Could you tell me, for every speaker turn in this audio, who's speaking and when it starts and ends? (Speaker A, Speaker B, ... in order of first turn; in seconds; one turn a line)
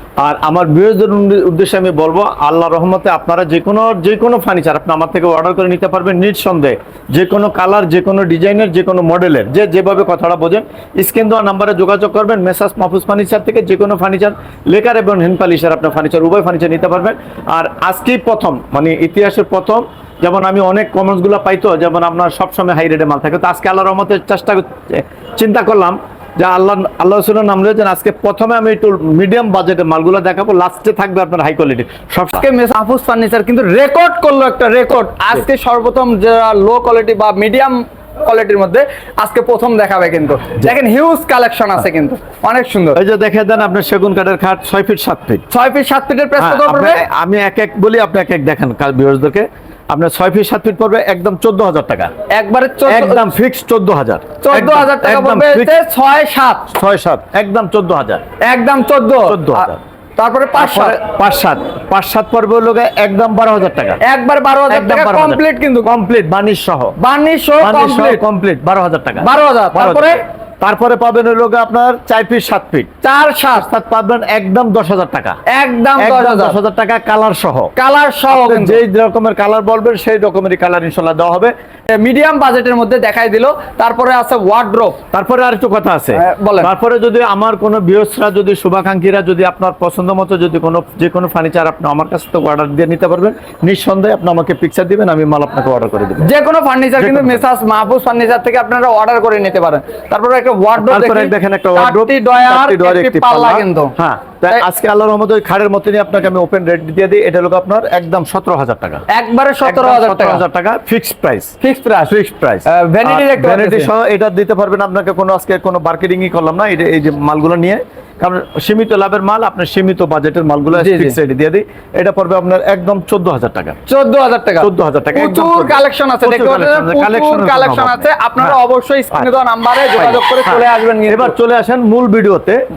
Speaker A: 0.2-32.5
Speaker B: 32.3-43.0
Speaker A: 43.0-45.4
Speaker B: 45.5-47.0
Speaker A: 46.4-52.1
Speaker B: 52.3-53.2
Speaker A: 52.9-55.7
Speaker B: 54.4-56.7
Speaker A: 56.7-58.2
Speaker B: 58.4-61.0
Speaker A: 59.2-59.8
Speaker A: 60.6-64.0
Speaker B: 64.0-65.9
Speaker A: 64.7-66.9
Speaker B: 67.0-68.2
Speaker A: 67.6-72.9
Speaker B: 69.2-70.2
Speaker B: 73.0-73.6
Speaker A: 73.5-75.4
Speaker B: 75.5-76.6
Speaker A: 76.0-77.7
Speaker B: 77.8-78.8
Speaker A: 78.3-81.5
Speaker B: 81.9-85.0
Speaker A: 85.1-96.3
Speaker B: 86.1-86.7
Speaker B: 96.2-103.9
Speaker A: 97.0-97.4
Speaker A: 100.8-109.0
Speaker B: 109.1-110.4
Speaker A: 109.6-111.5
Speaker B: 111.6-112.1
Speaker A: 112.1-123.8
Speaker B: 112.7-113.9
Speaker B: 120.7-121.2
Speaker B: 123.9-131.3
Speaker A: 124.6-128.6
Speaker A: 129.9-132.6